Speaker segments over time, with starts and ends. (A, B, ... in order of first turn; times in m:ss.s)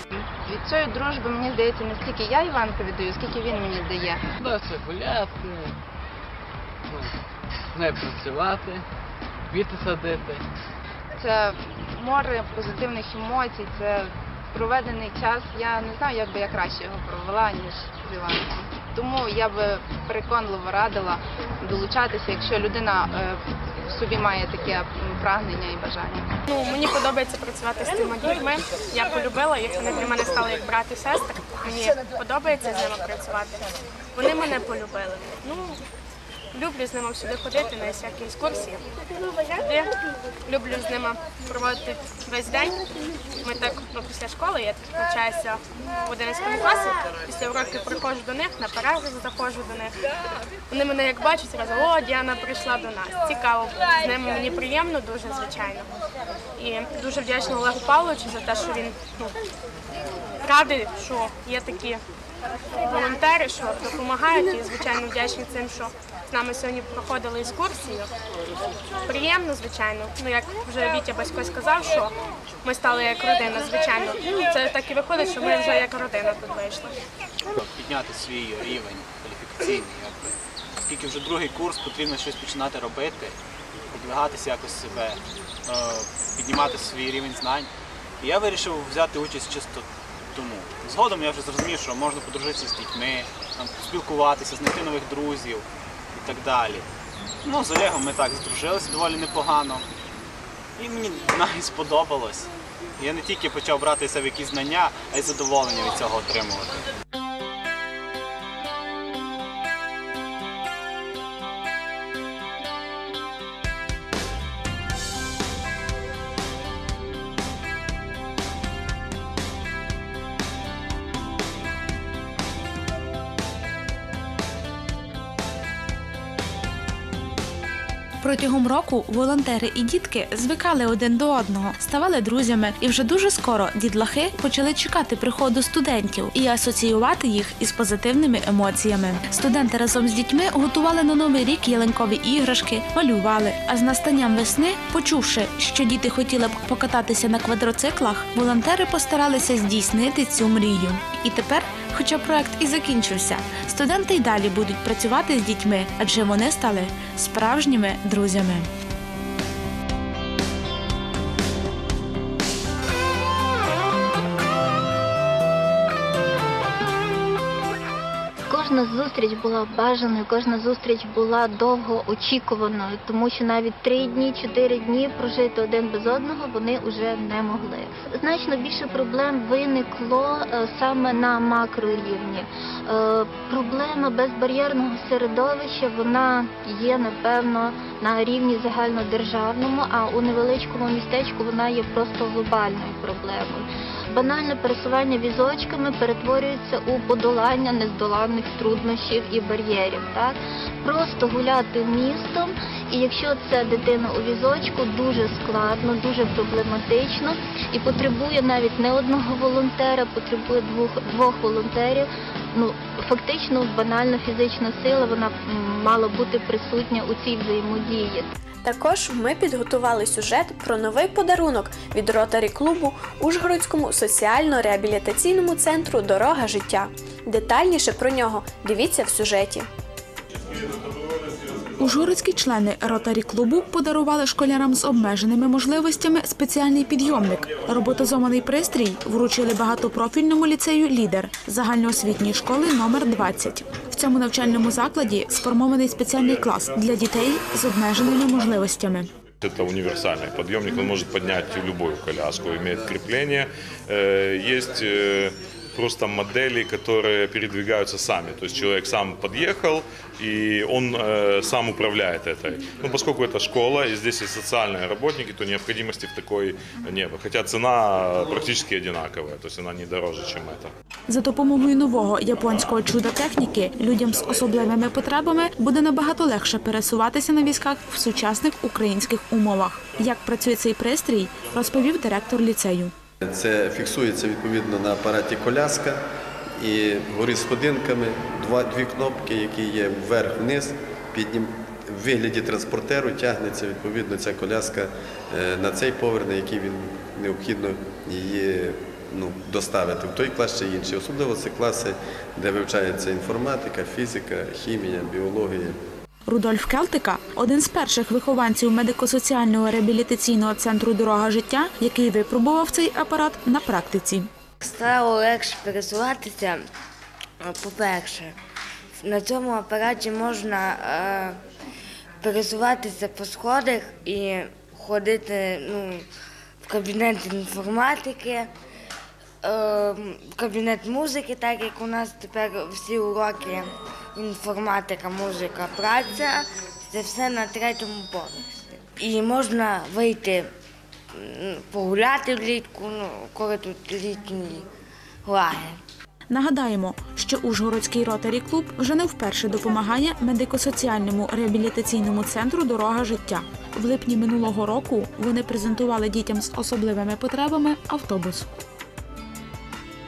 0:00.4-0:04.2 A
0:04.4-0:05.7 B
0:07.7-0:08.8 B
0:09.5-0:10.4 B
0:11.2-0:26.3 A
0:26.5-0:33.6 C
0:34.1-0:35.8 C
0:36.5-0:38.8 C
0:39.4-0:39.9 C
0:40.4-0:42.8 C
0:43.4-0:49.9 C
0:50.7-0:55.9 C
0:56.6-0:59.3 C
1:00.4-1:02.0 C
1:02.8-1:08.1 C
1:09.0-1:12.1 C
1:12.6-1:16.9 C
1:17.6-1:23.3 D
1:23.9-1:27.7 D
1:28.2-1:35.6 D
1:36.1-1:36.8 D
1:37.4-1:39.8 D
1:40.8-1:46.7 D
2:08.2-2:38.7 E
2:48.5-3:38.3 F
3:38.6-3:49.7 G
3:51.8-4:09.1 E
4:09.4-4:30.7 H
4:31.1-4:42.9 E
4:43.2-4:46.0 I
4:46.6-5:05.8 I
5:06.3-5:14.3 E
5:14.6-5:16.6 J
5:17.4-5:18.3 J
5:19.0-5:21.4 J
5:22.2-5:26.0 J
5:26.6-5:28.5 J
5:29.4-5:40.5 J
5:41.1-5:44.6 J
5:45.2-5:45.8 J
5:46.3-5:58.5 E